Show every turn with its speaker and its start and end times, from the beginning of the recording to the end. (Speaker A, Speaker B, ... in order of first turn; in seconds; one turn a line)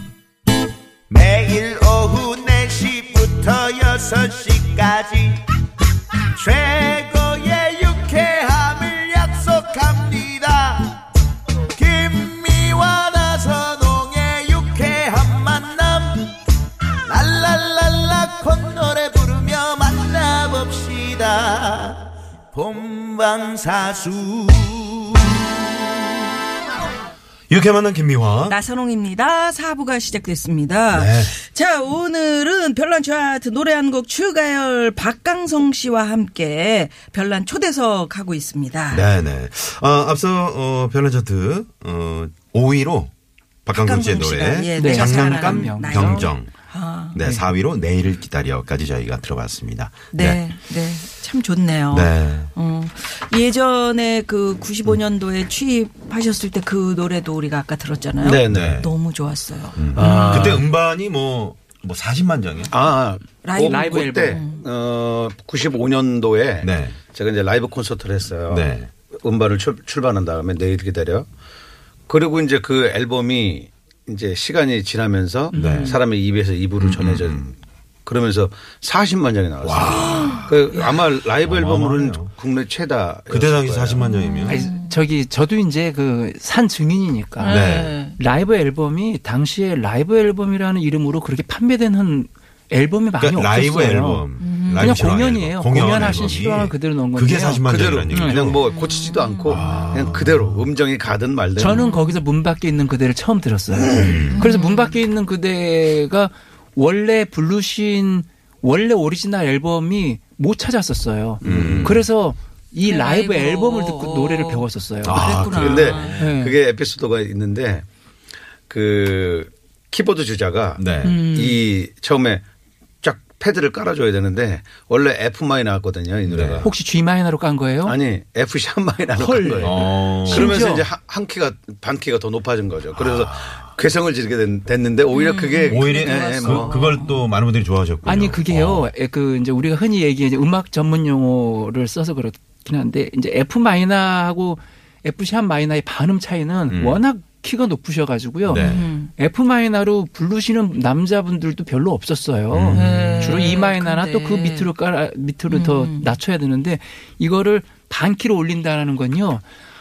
Speaker A: 1.1-5.4
Speaker A: 6.4-10.9
Speaker A: 11.8-16.3
Speaker A: 17.1-25.2
Speaker B: 27.5-28.6
Speaker C: 28.4-39.0
Speaker B: 30.9-31.4
Speaker B: 38.9-43.1
Speaker B: 43.7-46.5
Speaker C: 43.7-47.2
Speaker D: 44.8-46.1
Speaker B: 47.1-50.4
Speaker C: 50.1-60.6
Speaker B: 51.9-52.5
Speaker E: 58.2-58.8
Speaker B: 58.5-58.9
Speaker B: 59.8-62.8
Speaker E: 59.9-60.7
Speaker E: 62.7-71.3
Speaker C: 63.4-64.6
Speaker D: 63.6-64.4
Speaker B: 66.6-67.0
Speaker B: 68.5-68.9
Speaker E: 72.1-77.5
Speaker D: 75.5-76.0
Speaker B: 75.5-76.0
Speaker B: 76.8-77.5
Speaker E: 78.0-84.1
Speaker B: 79.6-82.3
Speaker C: 79.8-80.8
Speaker B: 83.3-84.7
Speaker C: 84.1-84.9
Speaker D: 84.5-98.6
Speaker C: 87.4-88.2
Speaker B: 87.5-88.0
Speaker B: 93.2-98.6
Speaker C: 94.4-95.1
Speaker E: 97.7-101.8
Speaker C: 98.7-99.7
Speaker B: 99.5-100.7
Speaker D: 101.6-115.3
Speaker C: 101.6-102.2
Speaker B: 103.9-104.5
Speaker C: 104.3-105.0
Speaker B: 111.4-112.1
Speaker E: 111.4-111.8
Speaker C: 112.8-116.2
Speaker B: 115.0-116.3
Speaker E: 115.6-117.8
Speaker D: 116.2-116.6
Speaker E: 118.7-122.4
Speaker B: 120.8-121.3
Speaker D: 121.0-121.6
Speaker E: 123.0-126.7
Speaker B: 126.2-126.7
Speaker D: 126.6-128.0
Speaker E: 127.8-136.9
Speaker D: 129.1-130.9
Speaker B: 129.6-130.6
Speaker B: 132.9-133.7
Speaker C: 135.1-137.2
Speaker B: 135.7-138.9
Speaker D: 138.0-159.4
Speaker B: 146.7-147.0
Speaker B: 148.4-148.9
Speaker C: 148.6-149.1
Speaker B: 152.5-153.4
Speaker C: 152.7-154.7
Speaker C: 155.5-156.2